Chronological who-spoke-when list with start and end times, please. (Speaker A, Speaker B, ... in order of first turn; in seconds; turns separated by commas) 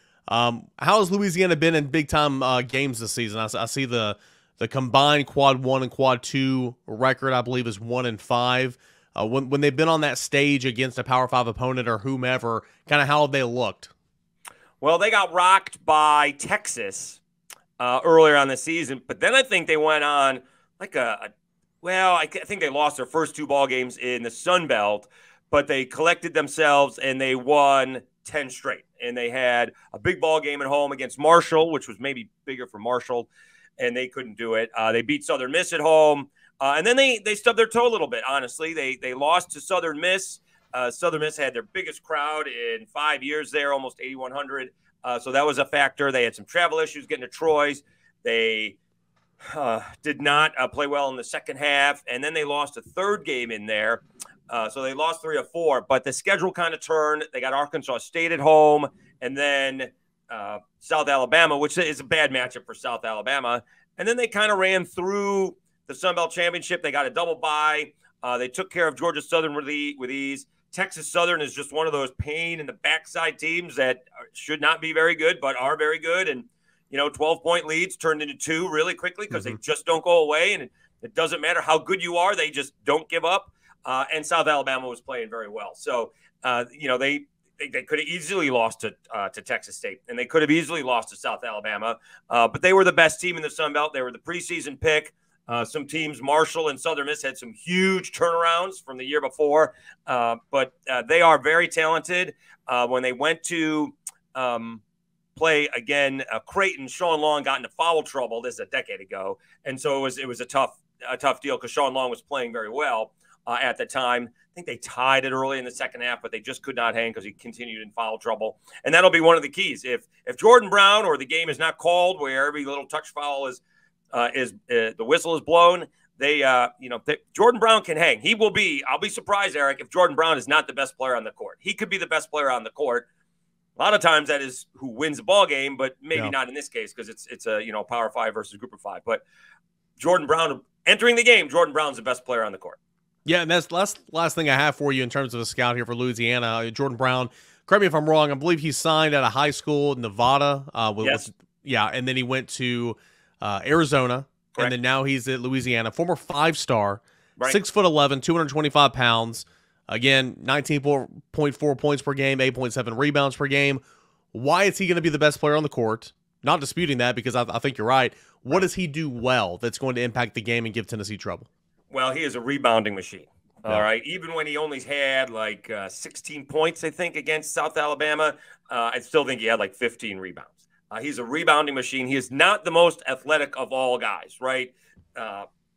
Speaker A: 0.3-13.9, Speaker B: 14.8-17.2, Speaker B: 17.8-21.3, Speaker B: 21.8-33.3, Speaker B: 33.8-48.8, Speaker B: 49.4-104.8, Speaker A: 79.3-79.6, Speaker B: 105.4-123.6, Speaker B: 124.1-133.1, Speaker B: 133.8-139.2, Speaker B: 140.0-142.8, Speaker A: 143.3-163.8, Speaker B: 151.0-151.3, Speaker A: 164.3-171.5, Speaker B: 171.9-185.5